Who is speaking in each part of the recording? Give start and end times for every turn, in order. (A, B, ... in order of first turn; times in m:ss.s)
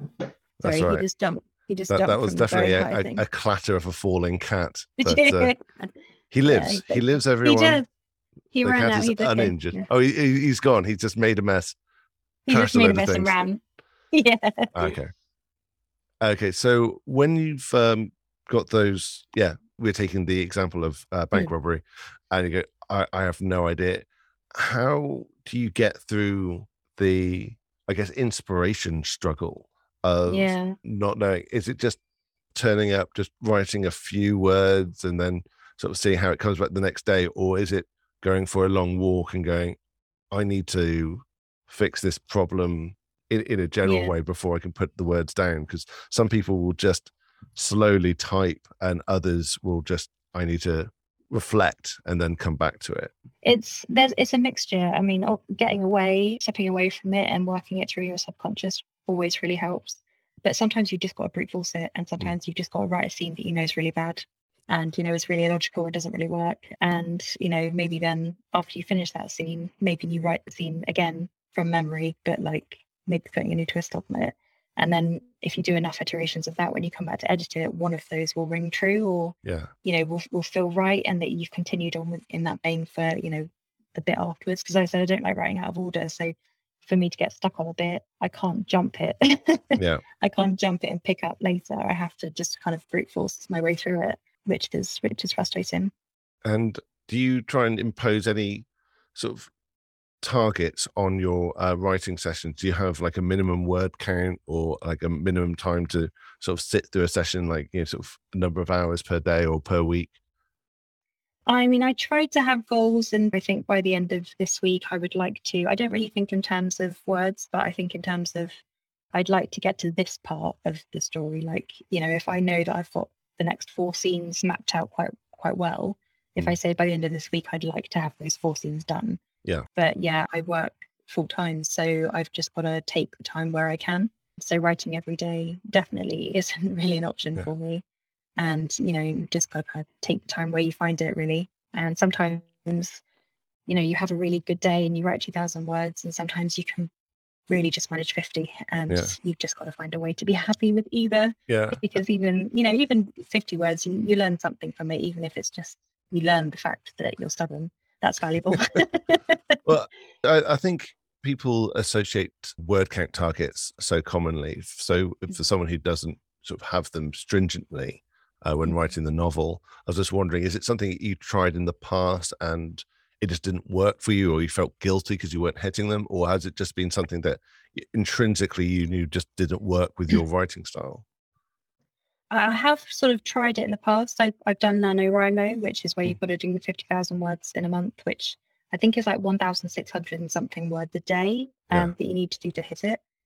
0:00.6-0:01.0 A
0:00.6-0:03.2 B
0:01.9-0:05.5 A
0:05.0-0:05.9 B
0:06.3-0:07.8 A
0:06.4-0:07.8 B
0:08.5-0:09.9 B
0:08.6-0:11.8 A
0:12.5-0:13.6 B
0:12.5-0:13.3 A
0:14.1-0:14.9 B
0:14.7-0:15.1 A
0:16.2-0:32.0 A
0:30.2-0:30.8 B
0:32.5-0:39.8 A
0:40.3-0:53.1 A
0:43.8-0:44.1 B
0:53.4-1:35.9 B
1:19.4-1:19.7 A
1:29.8-1:30.0 A
1:36.4-1:39.5 A
1:40.2-1:50.1 A
1:51.5-1:58.6 B
1:59.1-2:09.2 B
2:09.8-2:17.8 B
2:18.4-2:23.0 B
2:23.7-2:26.9 B
2:27.5-2:39.6 B
2:31.5-2:31.8 A
2:39.6-3:01.0 A
3:02.3-3:13.0 B